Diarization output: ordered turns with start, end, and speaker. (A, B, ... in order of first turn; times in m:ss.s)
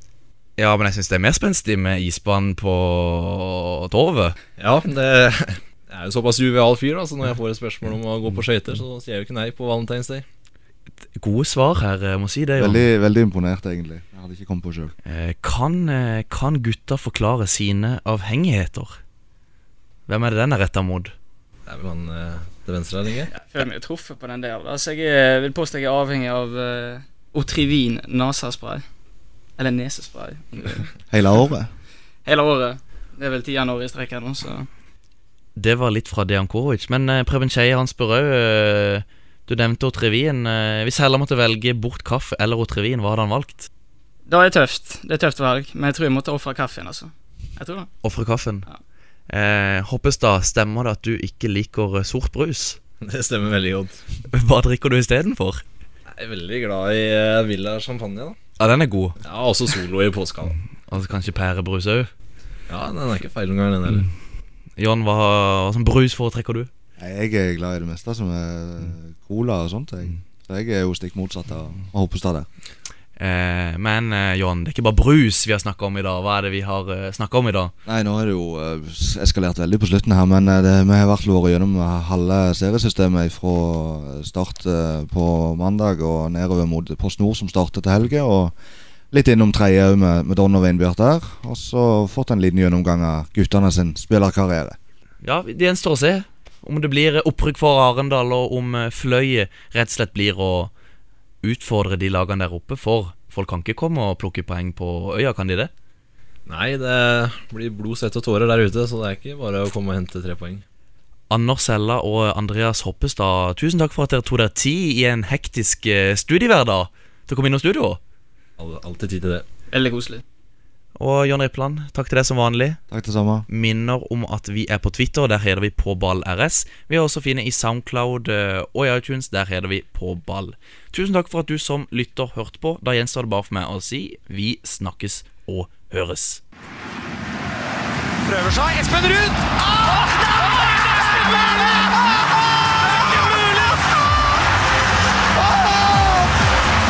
0:00.6-0:04.4 A
0:04.6-0:10.2 B
0:11.2-0:12.8 A
0:12.6-0:14.9 C
0:15.1-0:19.0 A
0:20.1-0:21.1 A
0:21.7-0:23.3 B
0:23.3-0:28.8 D
0:29.6-0:30.9 D
0:31.1-0:31.7 C
0:32.2-0:34.7 D
0:35.6-0:43.7 A
0:44.3-0:47.9 D
0:48.0-0:48.7 A
0:49.3-0:52.8 A
0:53.0-0:54.0 B
0:54.3-0:55.6 A
0:56.1-0:58.4 B
0:58.6-0:59.2 A
0:59.2-1:00.6 B
1:00.9-1:02.1 A
1:02.7-1:04.1 B
1:04.8-1:06.7 A
1:07.0-1:12.5 C
1:13.2-1:17.7 A
1:17.9-1:28.5 C
1:29.1-1:34.8 C
1:35.2-1:40.7 A
1:41.4-1:45.7 A
1:46.5-1:50.6 B
1:51.3-1:58.0 A
1:58.6-1:59.4 B
1:59.7-2:00.2 D
2:01.0-2:02.8 A
2:02.9-2:03.5 C
2:03.5-2:16.4 A
2:18.2-2:23.9 E
2:25.4-2:26.3 E